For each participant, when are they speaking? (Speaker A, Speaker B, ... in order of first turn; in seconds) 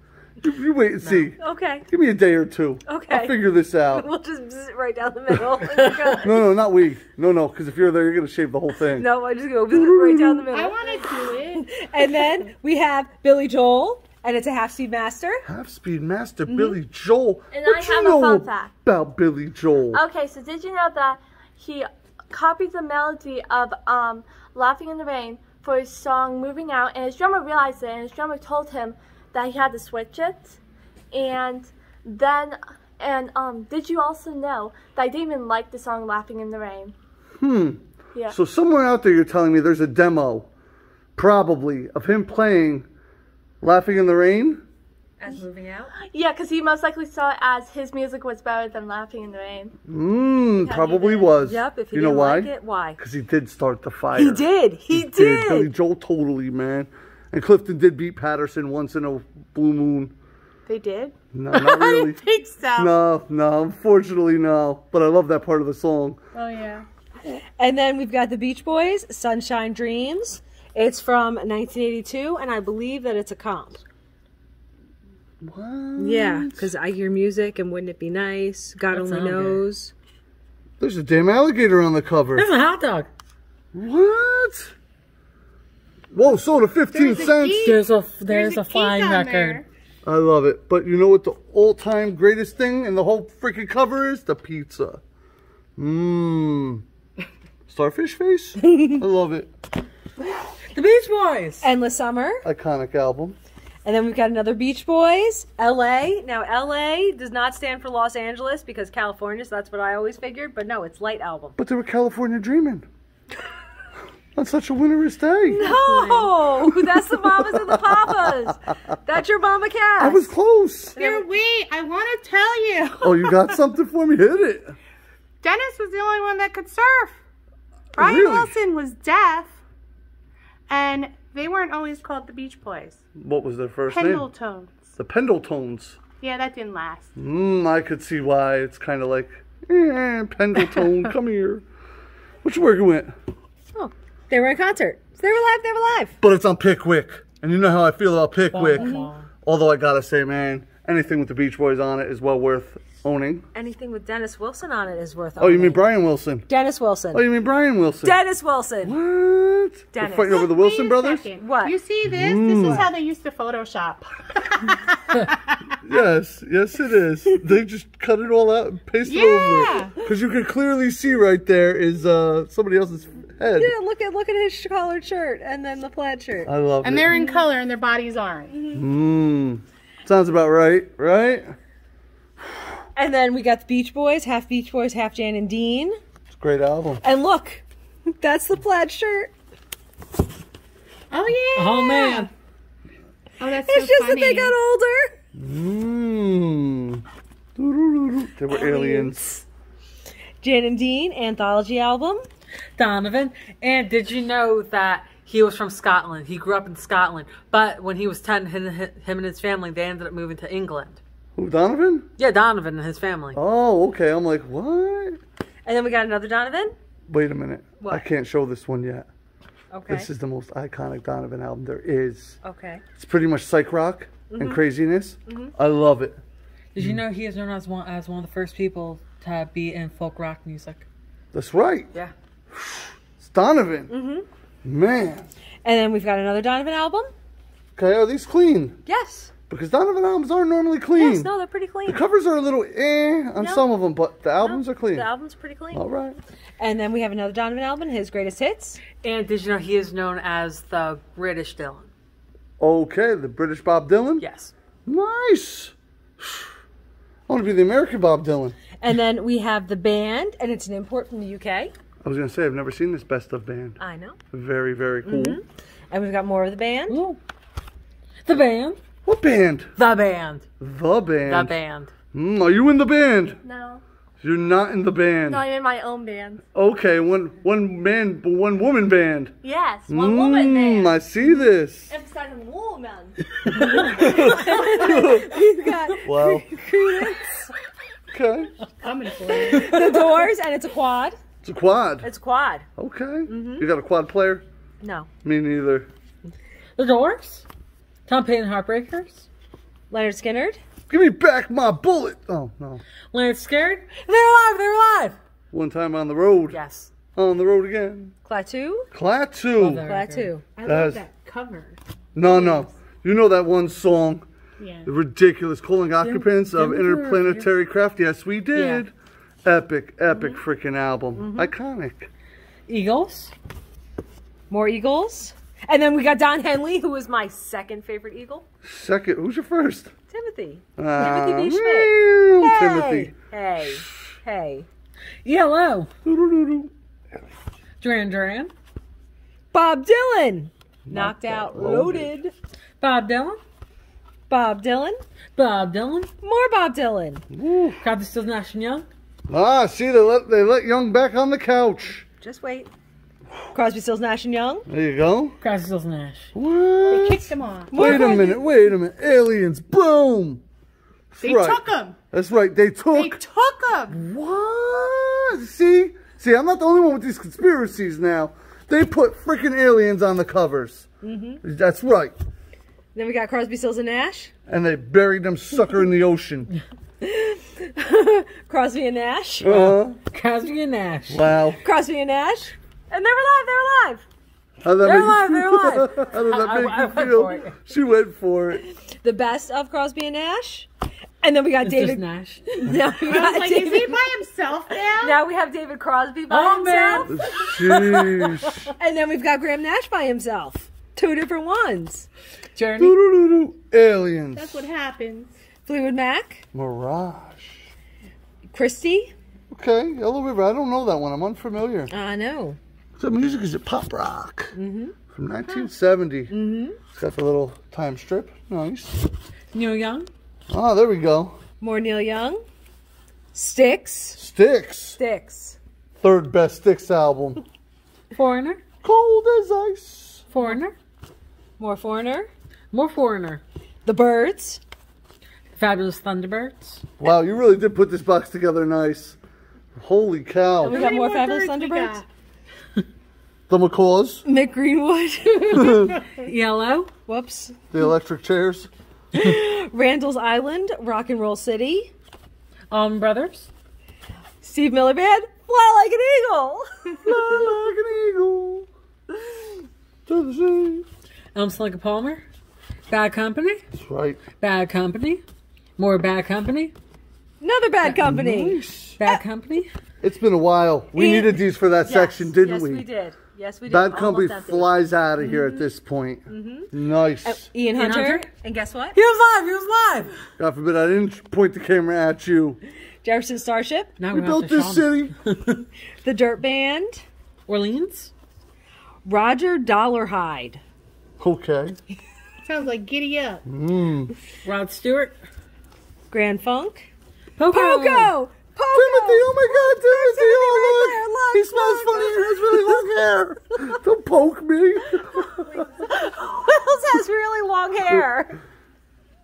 Speaker A: 0.4-4.1, 6.2-9.1, 9.7-10.4, 15.4-20.0, 37.4-40.5, 41.1-42.9, 43.6-44.6, 49.9-60.1, 61.3-62.2, 62.7-66.2, 75.4-76.7, 80.8-82.5, 83.7-84.7, 86.1-87.8, 90.0-95.0, 95.8-96.8, 97.7-99.5, 102.4-103.3, 111.6-112.8, 114.3-115.7, 116.6-118.5, 120.0-121.0, 123.0-124.8, 127.9-128.5, 133.2-134.3, 135.0-136.0, 137.2-141.6, 142.4-143.1, 146.2-153.5, 155.4-156.5, 157.1-158.2, 158.8-161.3, 162.1-162.9, 165.8-173.8, 176.4-177.1, 178.7-181.5, 186.3-187.0, 195.3-197.0, 197.6-199.4, 211.3-212.1, 213.3-215.2, 217.1-219.1, 219.9-222.4, 223.0-226.2, 231.3-231.9, 232.5-233.9, 234.6-235.3, 237.8-238.8, 239.5-241.3, 241.8-245.1, 245.7-246.2, 252.6-254.2, 254.8-256.5, 257.3-258.6, 262.0-263.8, 264.3-265.4, 269.1-269.7, 270.6-271.5, 272.1-273.4, 274.2-275.4, 276.5-279.3, 279.9-281.9, 283.4-285.4, 286.0-286.7, 288.1-288.5, 291.4-292.1, 292.8-294.4, 295.2-295.9, 300.9-302.8, 305.5-306.6, 307.1-308.1, 308.9-309.8, 310.6-311.0, 312.1-314.2, 314.8-318.9, 319.4-322.1, 328.6-329.9, 330.8-333.1, 336.0-336.7, 340.9-342.1, 347.3-347.8, 349.3-352.1, 354.7-355.4, 356.3-360.4, 361.1-363.2, 363.9-370.9, 371.4-372.1, 374.5-376.5, 379.4-380.0, 381.1-381.6, 384.6-388.6, 397.1-398.7, 402.8-404.6, 406.5-407.6, 409.5-411.9, 413.0-414.5, 415.1-416.3, 416.9-419.1, 420.5-421.4, 424.2-425.0, 426.0-427.4, 428.8-430.2, 437.0-439.1, 439.8-440.8, 443.5-444.2, 445.5-445.9, 447.7-448.7, 457.0-458.7, 460.1-460.8, 463.7-464.2, 467.9-469.0, 470.0-472.9, 473.7-477.5, 480.4-482.6, 484.1-485.1, 491.2-491.8, 493.4-494.1, 498.7-505.6
Speaker B: 1.1-1.8, 2.9-3.4, 3.9-6.4, 8.9-15.4, 16.5-16.8, 51.4-53.0, 54.1-55.7, 67.6-73.8, 76.0-79.9, 98.7-99.0, 101.6-102.4, 103.8-111.5, 115.5-120.3, 121.0-121.3, 143.7-146.2, 148.8-149.1, 153.5-155.8, 156.5-157.2, 158.0-158.9, 159.9-160.5, 161.4-161.8, 173.6-176.5, 177.1-177.4, 182.9-186.0, 187.0-189.3, 193.4-195.1, 198.5-199.4, 200.4-202.2, 215.6-216.7, 217.8-218.0, 219.7-220.1, 222.4-222.8, 224.3-224.6, 225.2-225.5, 233.9-234.2, 235.6-237.1, 238.8-239.3, 240.9-242.0, 243.4-243.7, 244.4-245.8, 246.6-248.8, 258.8-261.7, 263.8-264.2, 265.0-267.0, 283.7-287.5, 289.4-291.2, 292.0-292.6, 293.3-293.7, 294.8-295.1, 299.9-300.6, 308.2-308.9, 309.9-310.4, 320.1-320.4, 321.2-321.5, 324.5-328.4, 330.1-334.7, 339.5-342.3, 344.3-345.0, 346.2-347.2, 352.2-352.7, 353.5-354.7, 357.7-358.4, 371.0-371.4, 372.9-374.3, 377.0-379.6, 381.6-384.0, 389.0-390.7, 391.2-392.0, 392.6-394.1, 394.9-397.4, 398.8-402.1, 405.6-406.4, 408.5-409.1, 411.9-412.6, 414.5-414.9, 416.3-416.8, 421.6-422.4, 423.3-424.2, 425.0-425.6, 431.6-432.3, 433.9-434.6, 440.6-442.0, 444.2-445.9, 447.1-447.6, 449.1-451.9, 454.4-456.6, 467.4-468.6, 470.9-475.4, 476.3-476.7, 477.2-479.0, 483.0-483.9, 486.0-487.0, 489.0-490.6, 496.1-496.9, 497.5-502.8, 505.6-508.4
Speaker C: 10.5-11.7, 60.7-62.9, 66.3-66.8, 86.9-89.6, 115.5-116.3, 121.0-123.5, 125.4-127.2, 128.0-129.6, 130.7-133.0, 133.9-134.9, 136.2-137.1, 160.3-165.6, 169.0-169.9, 176.8-178.6, 191.1-192.3, 193.4-194.5, 288.8-289.7, 310.6-311.8, 312.3-312.7, 314.6-314.9, 356.9-358.1, 361.2-361.9, 362.9-364.0, 392.9-395.2, 404.3-405.3, 440.6-442.1, 492.4-493.4
Speaker D: 17.5-18.7, 19.9-30.6, 31.1-36.9, 46.0-49.8, 50.6-51.3, 273.4-273.8, 275.3-276.4, 279.4-280.9, 281.9-283.2
Speaker E: 45.2-45.9, 78.9-79.6, 82.3-83.1, 87.6-89.6, 100.7-101.6, 148.5-149.3, 191.5-192.3, 202.8-211.0, 212.2-213.4, 226.7-230.8, 249.0-251.9, 254.2-254.5, 266.9-267.2, 268.2-268.8, 269.8-270.4, 271.2-271.9, 296.8-297.4, 298.1-299.3, 303.1-305.1, 306.5-306.9, 309.6-310.3, 316.0-317.5, 318.5-318.8, 322.7-323.3, 335.2-335.9, 337.8-338.5, 342.8-343.4, 345.3-346.1, 347.8-348.9, 355.4-356.3, 379.6-381.2, 384.8-387.5, 391.6-392.6, 396.3-398.5, 402.6-402.9, 419.5-420.1, 428.1-428.6, 430.3-430.7, 432.7-433.4, 435.5-436.8, 446.2-446.9, 452.7-453.5, 461.3-462.2, 462.9-463.6, 464.4-465.2, 465.8-466.7, 467.8-468.1, 469.0-469.7, 477.7-478.3, 478.9-480.1, 484.0-485.6, 487.5-488.1, 494.4-495.2, 497.4-498.1